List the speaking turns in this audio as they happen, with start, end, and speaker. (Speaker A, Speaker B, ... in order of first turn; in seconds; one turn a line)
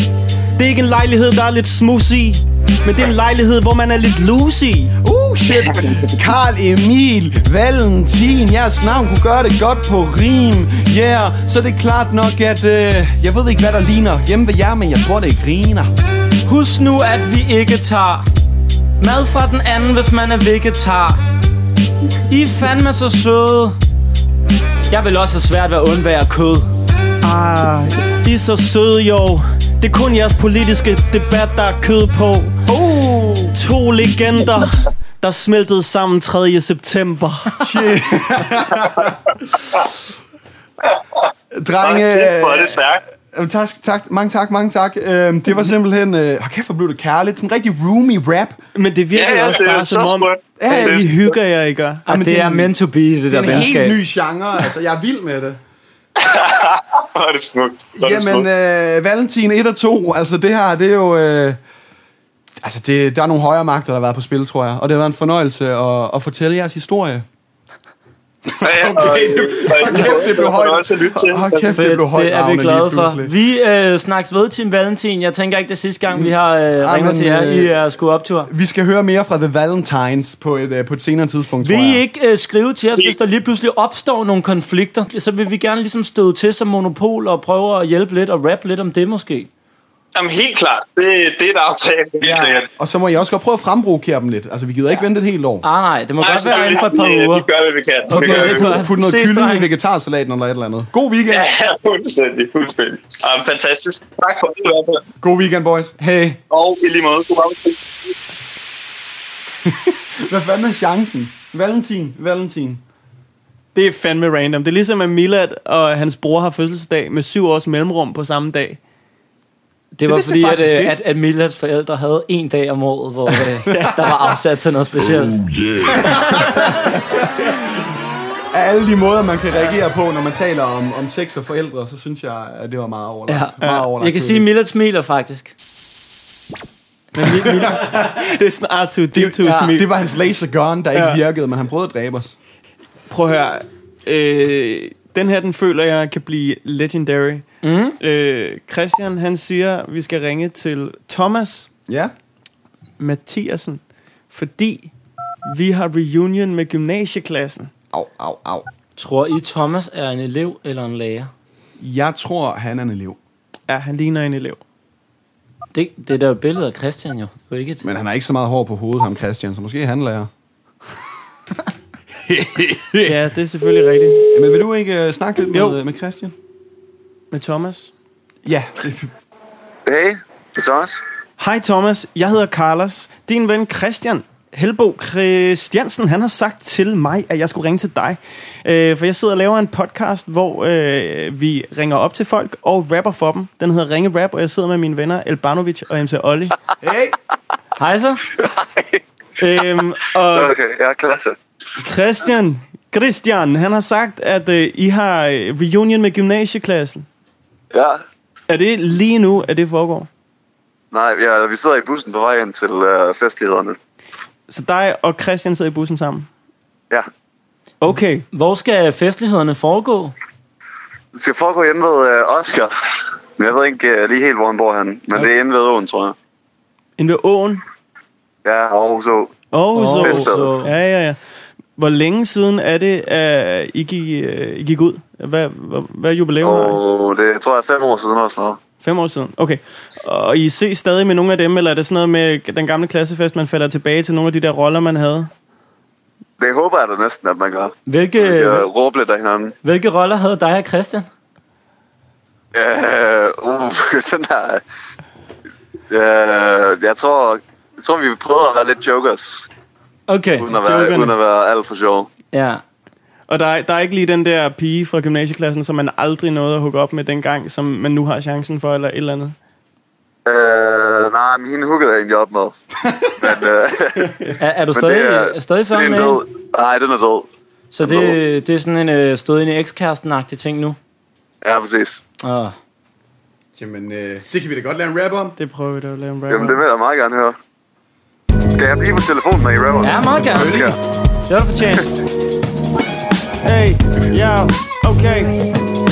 Speaker A: 0.6-4.9
Speaker B: 5.0-15.9
Speaker C: 5.7-6.1
Speaker D: 16.4-18.2
Speaker D: 19.0-21.2
Speaker D: 22.3-23.8
Speaker D: 24.9-26.7
Speaker A: 27.2-32.5
Speaker B: 32.7-33.5
Speaker A: 33.5-37.7
Speaker B: 37.6-39.1
Speaker C: 38.8-39.1
Speaker C: 40.8-41.2
Speaker B: 41.5-48.6
Speaker C: 41.8-43.0
Speaker A: 48.8-52.0
Speaker C: 49.1-51.1
Speaker B: 50.6-51.1
Speaker B: 52.1-52.7
Speaker D: 52.1-54.0
Speaker B: 53.3-55.6
Speaker C: 56.2-58.5
Speaker B: 58.0-61.6
Speaker B: 62.6-67.3
Speaker B: 68.5-73.3
Speaker C: 68.6-71.7
Speaker D: 71.8-78.5
Speaker B: 76.1-77.8
Speaker B: 78.5-82.0
Speaker D: 81.6-89.5
Speaker C: 90.2-92.7
Speaker B: 92.2-95.7
Speaker D: 95.6-97.5
Speaker C: 96.2-98.7
Speaker D: 98.1-99.7
Speaker B: 98.1-101.5
Speaker C: 101.3-105.0
Speaker B: 105.2-106.0
Speaker D: 106.0-106.4
Speaker C: 106.5-107.8
Speaker B: 109.7-112.8
Speaker A: 113.8-118.8
Speaker D: 120.0-125.5
Speaker B: 120.1-121.0
Speaker B: 125.8-127.7
Speaker B: 128.5-134.5
Speaker D: 133.3-135.5
Speaker B: 137.2-138.2
Speaker A: 137.2-139.9
Speaker B: 139.2-142.4
Speaker D: 139.4-139.7
Speaker A: 140.9-141.2
Speaker A: 143.1-147.5
Speaker D: 147.6-148.0
Speaker A: 148.0-151.7
Speaker B: 151.9-152.1
Speaker A: 153.0-154.9
Speaker A: 155.5-157.7
Speaker B: 157.9-158.7
Speaker D: 159.0-161.3
Speaker B: 161.8-163.2
Speaker A: 163.7-164.6
Speaker D: 165.7-167.8
Speaker B: 167.8-170.3
Speaker B: 172.2-173.2
Speaker A: 173.0-174.2
Speaker B: 174.3-176.3
Speaker A: 177.3-177.9
Speaker B: 178.4-179.1
Speaker E: 179.9-181.0
Speaker A: 181.4-196.5
Speaker B: 196.8-197.2
Speaker D: 197.8-198.2
Speaker E: 198.4-199.0
Speaker A: 199.4-200.5
Speaker E: 200.3-201.4
Speaker A: 201.8-207.1
Speaker E: 207.7-208.0
Speaker A: 208.5-210.1
Speaker E: 210.9-213.8
Speaker A: 214.5-216.3
Speaker A: 217.8-218.2
Speaker D: 218.3-220.1
Speaker E: 221.2-222.7
Speaker E: 223.4-226.2
Speaker A: 227.0-227.6
Speaker E: 228.4-229.3
Speaker A: 229.5-231.2
Speaker D: 229.8-230.7
Speaker E: 230.0-230.6
Speaker A: 231.8-236.8
Speaker E: 236.4-238.6
Speaker A: 238.8-245.3
Speaker E: 246.4-249.6
Speaker D: 247.9-248.7
Speaker D: 249.6-251.1
Speaker E: 252.5-254.6
Speaker E: 255.9-259.4
Speaker D: 260.1-260.5
Speaker E: 260.4-262.1
Speaker A: 260.6-261.1
Speaker D: 262.3-262.6
Speaker A: 263.3-269.4
Speaker E: 270.3-272.6
Speaker E: 273.2-277.3
Speaker D: 274.4-276.2
Speaker D: 277.7-280.8
Speaker E: 277.8-278.2
Speaker E: 281.4-282.0
Speaker D: 282.2-282.6
Speaker B: 283.6-285.4
Speaker A: 285.4-286.6
Speaker E: 286.3-287.4
Speaker E: 288.6-290.8
Speaker D: 289.8-290.7
Speaker B: 290.0-290.8
Speaker D: 291.3-291.9
Speaker A: 293.4-295.3